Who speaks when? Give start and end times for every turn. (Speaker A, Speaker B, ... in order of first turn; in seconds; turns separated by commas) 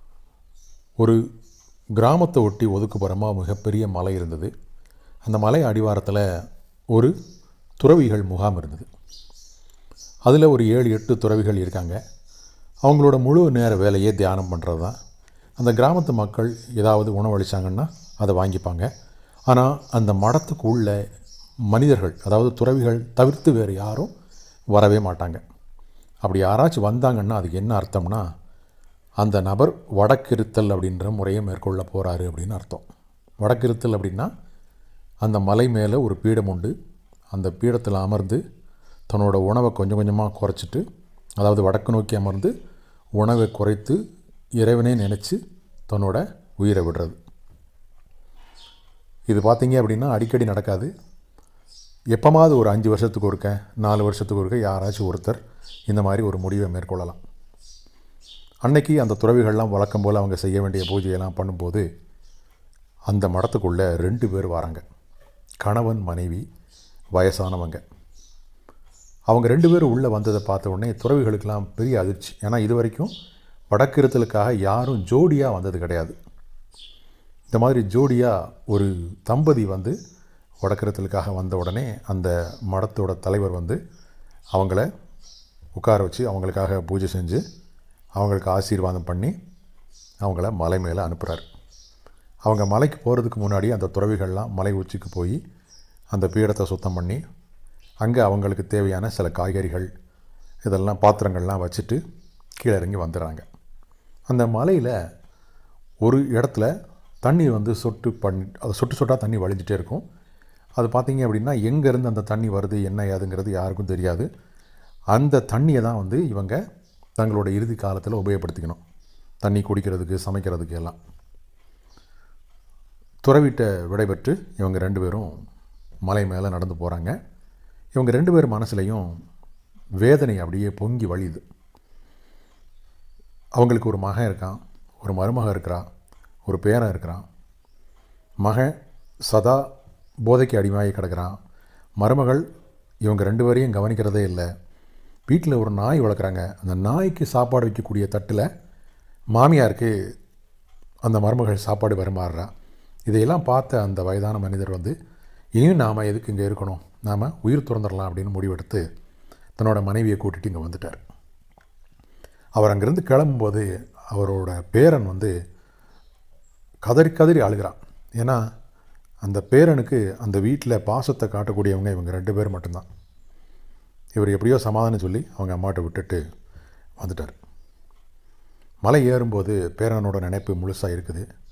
Speaker A: 2.0-4.5, Speaker A: 5.2-6.2, Speaker A: 7.8-8.9, Speaker A: 10.3-12.0, Speaker A: 12.8-14.9, Speaker A: 15.6-18.9, Speaker A: 19.5-21.0, Speaker A: 21.7-24.1, Speaker A: 24.7-25.4, Speaker A: 26.2-28.2, Speaker A: 29.2-32.9, Speaker A: 33.4-34.3, Speaker A: 35.2-36.7, Speaker A: 37.3-38.4, Speaker A: 39.1-40.8, Speaker A: 41.4-42.5, Speaker A: 43.2-44.0, Speaker A: 44.6-47.2, Speaker A: 49.3-50.9, Speaker A: 52.1-57.2, Speaker A: 58.6-61.9, Speaker A: 63.1-64.8, Speaker A: 65.6-66.4, Speaker A: 67.2-67.8, Speaker A: 69.3-73.1, Speaker A: 73.7-76.2, Speaker A: 77.5-80.0, Speaker A: 80.6-83.8, Speaker A: 84.5-84.9, Speaker A: 85.8-87.4, Speaker A: 88.2-89.3, Speaker A: 90.2-91.5, Speaker A: 92.5-95.4, Speaker A: 96.1-97.2, Speaker A: 98.0-99.9, Speaker A: 100.7-102.0, Speaker A: 102.6-103.4, Speaker A: 104.3-104.9, Speaker A: 106.0-106.7, Speaker A: 107.2-110.0, Speaker A: 110.8-114.3, Speaker A: 115.1-116.6, Speaker A: 117.2-118.8, Speaker A: 119.4-121.0, Speaker A: 123.2-125.3, Speaker A: 126.1-127.2, Speaker A: 128.0-129.1, Speaker A: 130.0-131.4, Speaker A: 133.6-135.8, Speaker A: 136.5-137.2, Speaker A: 138.4-138.8, Speaker A: 139.3-139.7, Speaker A: 140.3-141.3, Speaker A: 142.0-142.4, Speaker A: 143.1-144.5, Speaker A: 145.3-148.5, Speaker A: 149.3-149.9, Speaker A: 151.0-152.5, Speaker A: 153.1-154.9, Speaker A: 155.6-158.8, Speaker A: 159.6-161.0, Speaker A: 162.6-165.3, Speaker A: 166.8-168.4, Speaker A: 169.2-172.8, Speaker A: 174.2-176.2, Speaker A: 177.0-177.3, Speaker A: 178.8-181.2